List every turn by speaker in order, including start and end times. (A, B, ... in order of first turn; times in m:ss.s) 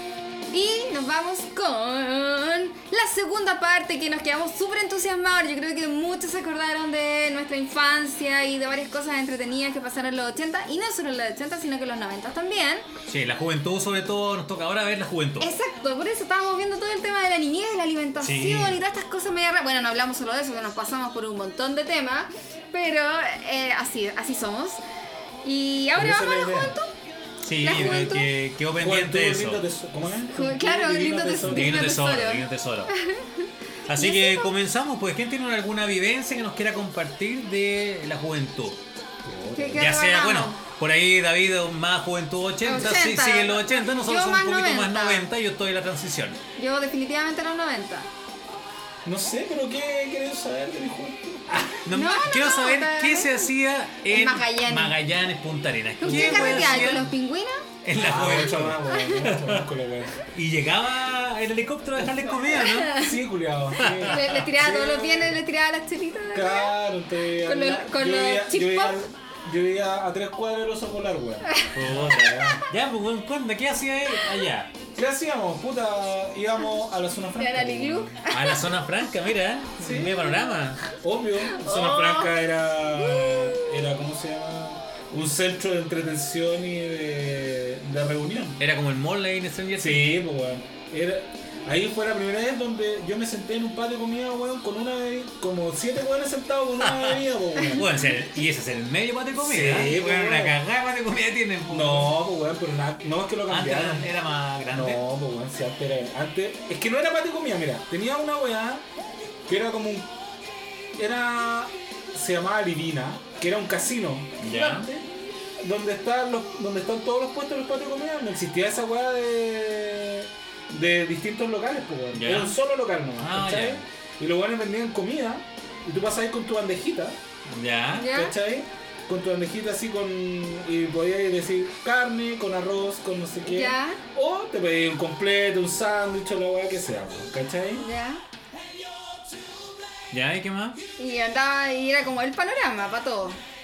0:00.5-0:12.8 A
0:13.1-0:15.5 B
0:15.4-0:24.8 A
0:18.2-0:18.8 B
0:25.4-0:26.9 A
0:26.0-0:26.7 C
0:27.4-0:29.6 B
0:27.6-0:28.3 A
0:28.8-0:31.8 C
0:30.3-0:34.5 A
0:31.4-0:32.9 B
0:33.9-0:38.8 B
0:39.2-0:40.0 C
0:39.6-0:40.6 A
0:39.7-0:46.4 B
0:42.6-0:45.3 A
0:46.6-0:48.1 A
0:49.0-0:51.8 C
0:51.8-0:57.1 B
0:51.9-0:53.5 A
0:54.1-0:55.0 A
0:56.0-0:57.6 A
0:56.1-0:56.7 C
0:57.8-0:59.6 B
0:57.9-1:00.2 C
0:58.9-0:59.2 A
1:00.3-1:02.9 B
1:02.4-1:03.1 A
1:02.9-1:05.4 C
1:03.8-1:04.4 B
1:04.0-1:06.7 A
1:06.3-1:12.6 C
1:07.4-1:09.0 A
1:11.4-1:11.7 A
1:11.7-1:14.7 B
1:12.4-1:12.6 A
1:14.9-1:18.1 C
1:17.4-1:18.7 A
1:18.2-1:20.8 B
1:19.8-1:20.3 C
1:20.8-1:28.6 C
1:21.4-1:22.3 A
1:22.9-1:23.8 A
1:28.6-1:30.1 B
1:29.8-1:38.0 C
1:36.8-1:42.1 B
1:39.4-1:40.6 C
1:41.7-1:44.1 C
1:43.5-1:45.0 B
1:44.7-1:48.8 C
1:49.5-1:50.1 C
1:51.0-1:55.1 C
1:54.4-1:54.9 B
1:55.6-2:07.2 C
2:02.2-2:02.6 B
2:03.2-2:03.8 B
2:07.5-2:08.1 B
2:07.9-2:08.3 A
2:08.1-2:17.8 C
2:13.4-2:14.0 A
2:17.8-2:18.2 A
2:20.1-2:20.8 B
2:21.0-2:23.4 A